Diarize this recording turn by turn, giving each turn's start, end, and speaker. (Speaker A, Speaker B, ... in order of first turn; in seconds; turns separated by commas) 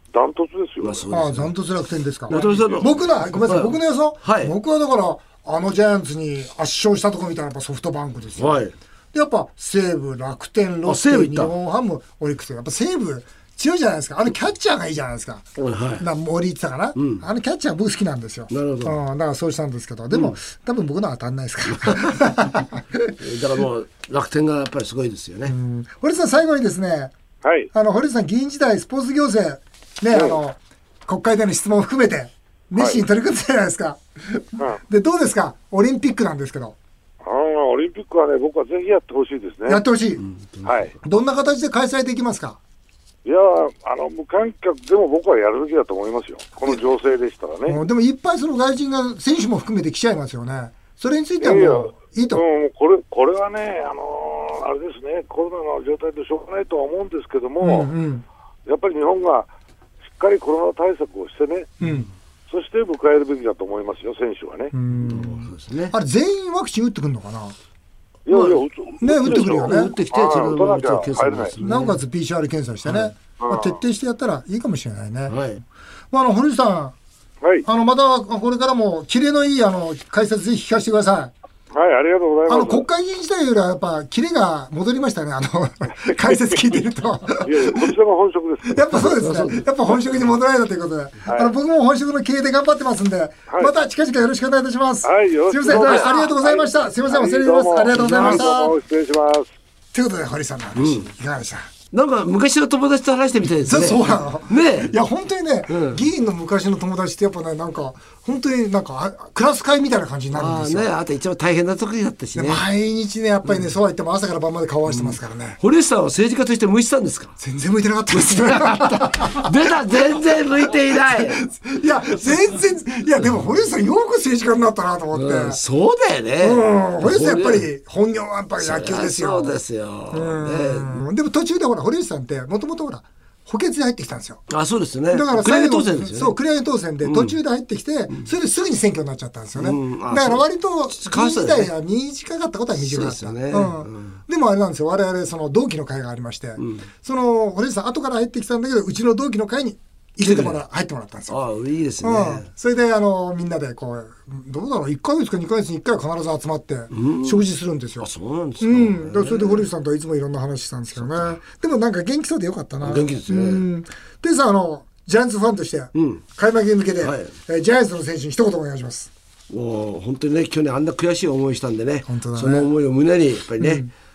Speaker A: 0.1-1.1, Speaker B: 0.8-1.5, Speaker C: 1.1-15.5, Speaker B: 2.3-4.5, Speaker A: 2.3-2.8, Speaker B: 8.4-8.7, Speaker B: 10.9-11.5, Speaker B: 15.6-16.1, Speaker C: 16.0-23.1, Speaker B: 17.0-17.2, Speaker B: 18.5-19.0, Speaker B: 20.1-20.4, Speaker B: 21.7-22.2, Speaker B: 23.2-25.6, Speaker C: 25.5-27.1, Speaker A: 27.4-27.7, Speaker C: 27.7-36.8, Speaker A: 30.1-30.4, Speaker A: 32.8-33.0, Speaker A: 37.2-39.8, Speaker C: 39.7-40.2, Speaker B: 40.2-40.9, Speaker A: 40.6-40.9, Speaker C: 41.0-42.6, Speaker A: 43.2-47.8, Speaker C: 47.7-52.4, Speaker A: 51.4-57.9, Speaker C: 57.6-58.2, Speaker A: 58.7-59.5, Speaker A: 60.1-61.7, Speaker C: 61.8-62.1, Speaker A: 62.5-64.7, Speaker C: 64.7-67.5, Speaker B: 64.9-65.9, Speaker B: 68.3-68.7, Speaker A: 68.3-71.5, Speaker C: 69.0-70.0, Speaker B: 69.2-72.0, Speaker C: 71.6-75.4, Speaker B: 72.8-73.1, Speaker A: 73.4-73.8, Speaker B: 75.3-75.6, Speaker C: 76.1-77.0, Speaker C: 77.7-81.3, Speaker A: 81.7-82.9, Speaker C: 82.5-87.9, Speaker A: 86.1-86.6, Speaker A: 87.4-89.0, Speaker C: 88.7-98.8, Speaker B: 88.9-90.0, Speaker A: 95.0-99.5, Speaker B: 95.7-96.1, Speaker B: 97.9-98.5, Speaker C: 99.9-101.7, Speaker B: 100.8-101.1, Speaker B: 101.9-104.9, Speaker C: 103.6-110.9, Speaker B: 105.7-106.0, Speaker B: 110.3-112.6, Speaker C: 112.3-115.6, Speaker B: 114.9-117.4, Speaker C: 117.4-120.2, Speaker B: 118.1-121.4, Speaker C: 120.7-125.6, Speaker B: 125.1-127.7, Speaker C: 126.4-129.6, Speaker B: 128.6-131.1, Speaker C: 130.1-134.4, Speaker B: 134.5-136.4, Speaker C: 135.1-151.4, Speaker B: 137.0-137.4, Speaker B: 139.6-141.7, Speaker B: 142.8-144.2, Speaker B: 146.6-146.9, Speaker B: 150.2-150.6, Speaker B: 151.3-152.5, Speaker C: 152.0-158.1, Speaker B: 156.9-157.4, Speaker B: 158.0-159.7, Speaker C: 158.6-169.1, Speaker B: 161.0-161.4, Speaker B: 162.8-163.7, Speaker B: 165.9-166.2, Speaker B: 167.0-167.3, Speaker B: 169.5-173.8, Speaker C: 172.1-172.7, Speaker C: 173.6-173.9